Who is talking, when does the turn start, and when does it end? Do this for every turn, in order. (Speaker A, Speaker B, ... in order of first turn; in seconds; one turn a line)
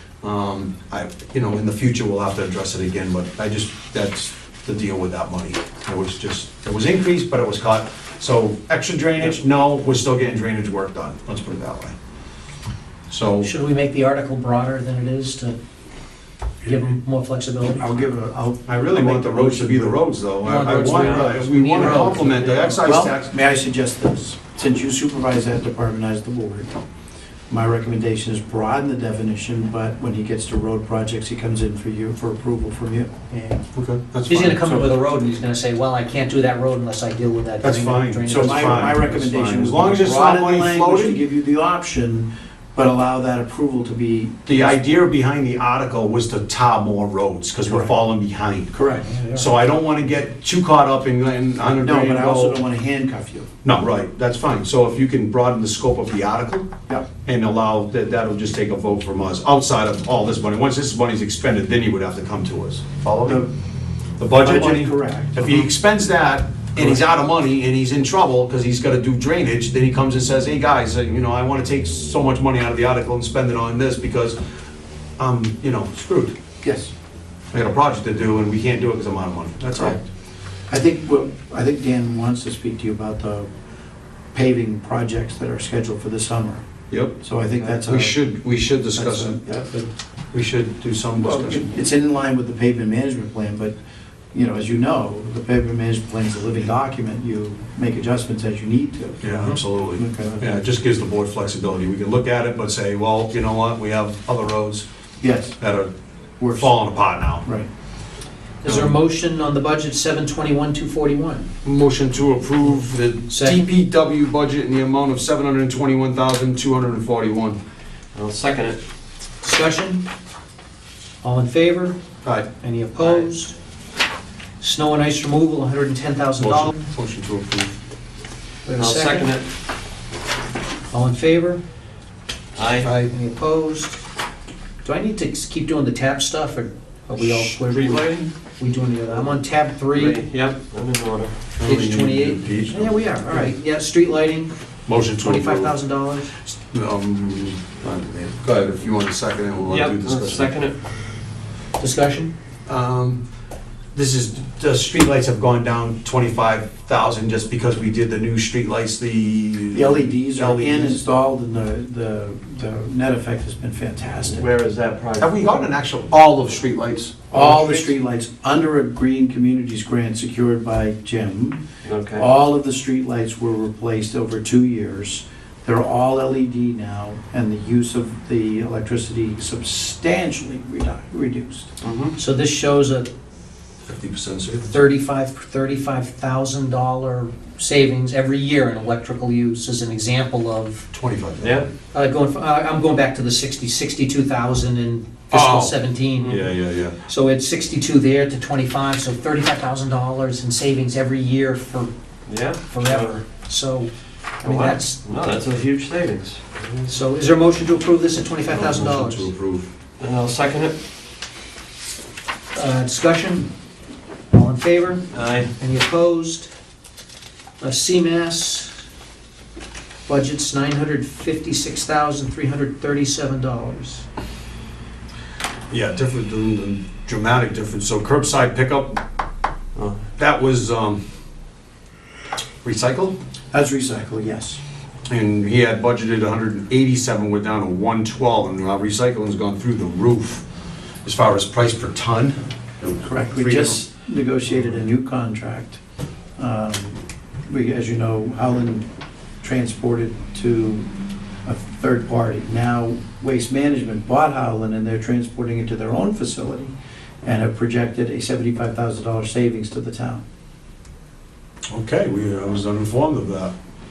Speaker A: 0.2-11.9
Speaker A: 13.1-13.5
Speaker B: 13.4-15.6
Speaker B: 16.6-17.9
Speaker C: 17.8-20.1
Speaker A: 18.7-23.3
Speaker B: 20.4-22.9
Speaker D: 20.9-21.3
Speaker C: 22.8-26.7
Speaker C: 27.5-33.6
Speaker A: 33.7-34.9
Speaker B: 34.3-39.0
Speaker A: 37.6-41.2
Speaker C: 38.3-44.8
Speaker A: 44.5-48.8
Speaker C: 47.6-47.9
Speaker C: 48.7-49.1
Speaker B: 49.1-49.5
Speaker A: 49.3-52.6
Speaker C: 51.8-53.5
Speaker A: 53.6-56.7
Speaker A: 57.2-63.5
Speaker C: 63.2-63.5
Speaker A: 64.2-74.4
Speaker C: 64.3-65.7
Speaker C: 66.8-67.0
Speaker A: 75.2-76.3
Speaker C: 76.6-76.9
Speaker A: 77.5-80.0
Speaker C: 80.7-83.5
Speaker C: 84.3-86.6
Speaker A: 86.9-87.2
Speaker C: 87.1-88.2
Speaker A: 87.8-91.7
Speaker C: 88.9-89.8
Speaker C: 91.1-93.7
Speaker C: 94.3-100.6
Speaker A: 99.2-104.8
Speaker C: 105.2-105.6
Speaker A: 105.6-105.9
Speaker C: 106.4-106.7
Speaker A: 106.5-107.5
Speaker C: 107.4-107.7
Speaker B: 108.6-111.5
Speaker A: 108.7-108.9
Speaker A: 111.6-117.6
Speaker B: 113.3-113.6
Speaker D: 118.1-118.8
Speaker B: 119.4-120.0
Speaker B: 121.2-122.0
Speaker B: 122.6-123.5
Speaker B: 124.6-126.8
Speaker A: 126.4-127.7
Speaker B: 128.7-129.3
Speaker D: 128.8-129.4
Speaker B: 130.9-131.6
Speaker D: 132.6-132.9
Speaker A: 132.8-133.1
Speaker B: 132.9-134.0
Speaker B: 134.8-140.2
Speaker A: 137.2-138.2
Speaker D: 137.8-138.2
Speaker D: 139.9-141.4
Speaker A: 141.6-143.5
Speaker B: 141.6-144.5
Speaker A: 144.9-145.7
Speaker B: 145.2-146.3
Speaker A: 146.4-150.5
Speaker D: 149.7-150.8
Speaker B: 151.8-152.3
Speaker A: 152.7-153.2
Speaker A: 153.9-161.0
Speaker C: 159.7-164.5
Speaker D: 164.3-165.7
Speaker A: 165.2-167.9
Speaker C: 167.3-171.6
Speaker D: 171.8-172.2
Speaker C: 172.1-181.7
Speaker D: 181.8-182.2
Speaker B: 182.2-183.1
Speaker A: 183.8-184.8
Speaker B: 184.7-190.9
Speaker A: 190.9-191.6
Speaker D: 191.4-191.7
Speaker B: 191.9-196.5
Speaker A: 195.3-197.0
Speaker B: 197.1-201.9
Speaker D: 202.3-203.2
Speaker B: 202.7-205.0
Speaker D: 204.4-206.9
Speaker B: 206.9-209.3
Speaker A: 208.5-209.7
Speaker D: 210.0-210.8
Speaker B: 212.5-213.5
Speaker B: 214.3-216.5
Speaker D: 215.1-215.5
Speaker B: 217.6-218.7
Speaker B: 220.1-224.0
Speaker A: 225.7-229.0
Speaker D: 229.8-230.0
Speaker A: 230.2-231.0
Speaker A: 232.6-233.1
Speaker C: 233.5-234.6
Speaker A: 235.1-240.4
Speaker A: 241.0-242.4
Speaker C: 242.8-245.8
Speaker A: 243.3-243.8
Speaker C: 246.4-248.8
Speaker C: 249.4-250.9
Speaker C: 251.4-260.2
Speaker A: 261.7-263.5